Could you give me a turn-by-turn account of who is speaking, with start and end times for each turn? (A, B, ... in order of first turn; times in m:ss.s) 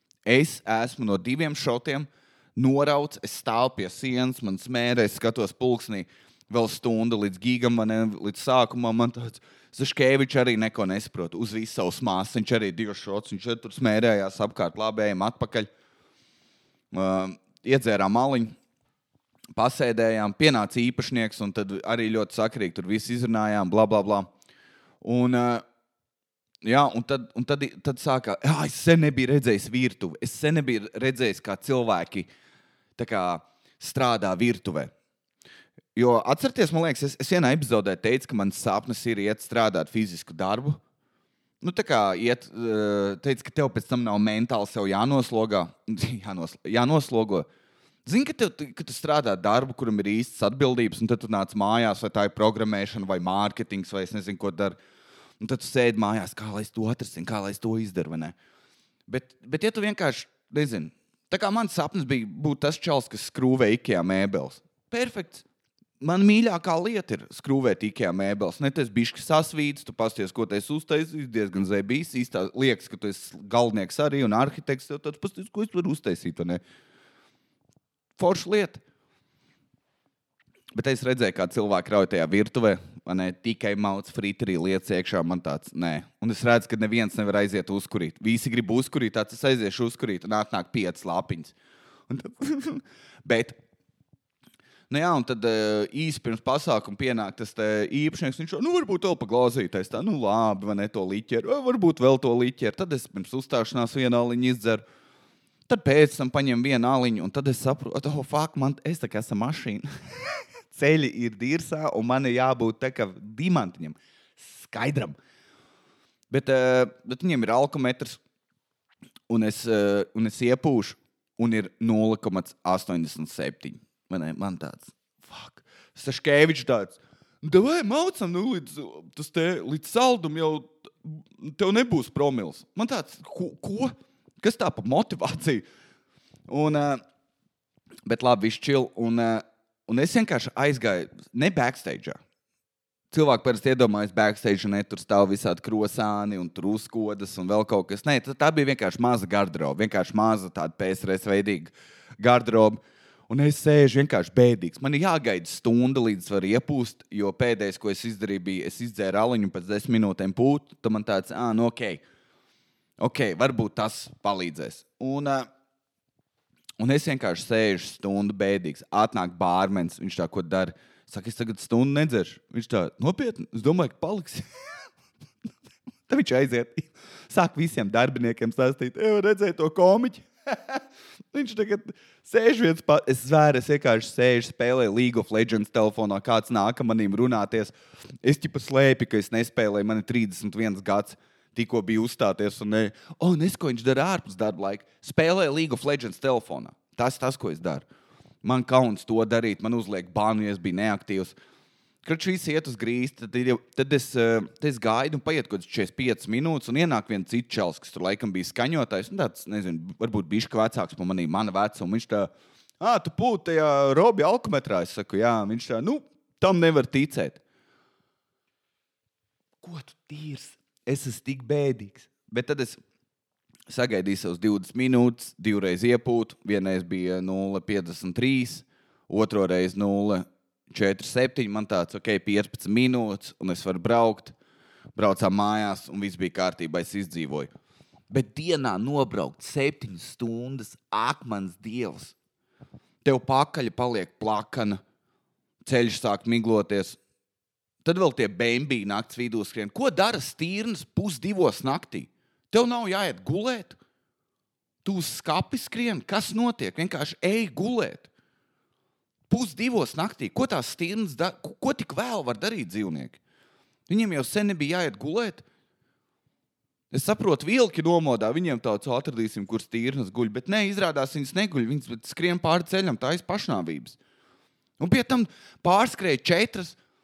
0:00.2-0:15.7 A
0:16.9-0:18.5 A
0:19.6-0:24.3 A
0:25.0-0:25.6 A
0:26.6-0:32.3 A
0:33.0-0:34.9 A
0:36.0-0:40.8 A
0:41.6-0:47.5 A
0:48.1-0:54.8 A
0:55.4-0:58.4 A
0:59.1-1:05.4 A
1:06.0-1:16.6 A
1:18.2-1:18.8 A
1:20.7-1:31.6 A
1:32.1-1:33.6 A
1:34.9-1:44.8 A
1:45.7-1:49.9 A
1:50.7-1:55.2 A
1:56.3-1:58.2 A
1:59.3-2:15.6 A
2:16.5-2:17.0 A
2:18.1-2:22.2 A
2:23.1-2:42.0 A
2:43.0-2:45.5 A
2:46.8-2:54.4 A
2:56.1-3:17.8 A
3:18.4-3:21.4 A
3:22.0-3:32.3 A
3:32.8-3:37.4 A
3:39.6-3:42.8 A
3:43.7-3:54.4 A
3:55.0-3:57.5 A
3:58.1-4:02.2 A
4:03.0-4:04.8 A
4:05.6-4:07.0 A
4:07.8-4:13.8 A
4:14.8-4:18.1 A
4:19.3-4:23.2 A
4:23.9-4:25.4 A
4:26.9-4:34.0 A
4:34.8-4:36.8 A